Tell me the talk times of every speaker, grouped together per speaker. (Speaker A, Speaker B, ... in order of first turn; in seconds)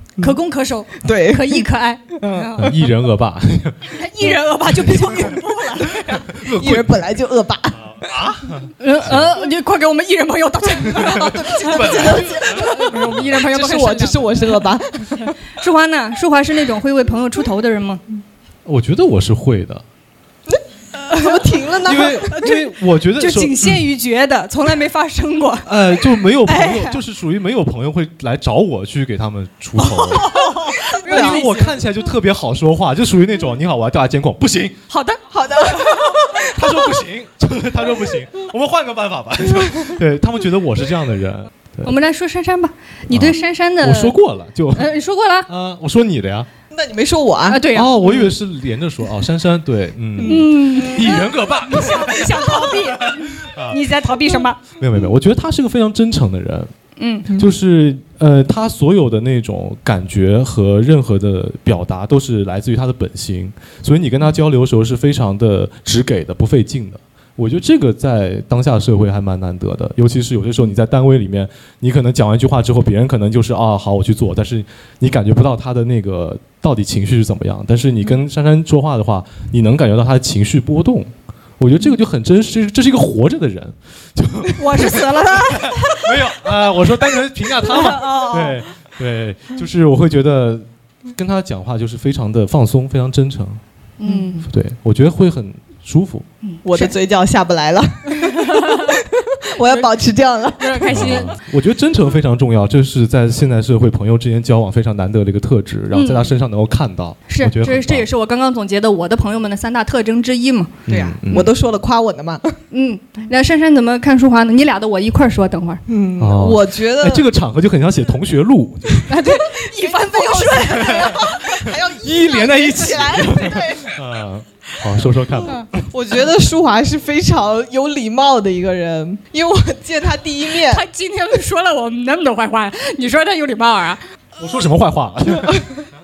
Speaker A: 0.2-2.7, 3.9-6.2, 8.8-14.5, 15.6-18.0, 21.1-21.4, 22.3-22.6, 23.2-25.7, 26.4-27.0, 29.8-31.7, 34.9-35.2, 41.8-44.1, 44.7-45.5, 47.5-47.9, 50.2-54.6, 57.0-57.3, 84.6-86.1, 87.7-88.6, 94.0-94.5, 96.4-96.9, 98.1-99.0, 99.6-99.9, 100.6-101.3, 105.9-106.3, 107.3-110.7, 112.7-115.8, 119.0-121.3, 130.6-134.0
Speaker B: 1.0-1.6, 2.2-2.7, 6.4-7.8, 11.1-15.3, 21.1-22.5, 30.9-31.4, 35.3-36.5, 46.7-48.3, 50.2-51.2, 96.6-101.3, 110.9-112.5, 115.9-117.3, 119.5-123.9, 125.9-130.8
Speaker C: 2.6-3.9, 4.8-5.3, 6.2-7.1, 7.7-9.3, 10.9-13.2, 18.6-19.8, 21.8-23.8, 25.6-30.3, 31.1-34.8, 36.3-41.9, 43.1-46.5, 47.7-53.8, 54.8-56.7, 57.4-93.6, 94.5-96.3, 100.9-108.1, 110.8-111.5, 116.2-119.0, 120.8-121.2, 121.9-125.7, 134.4-135.7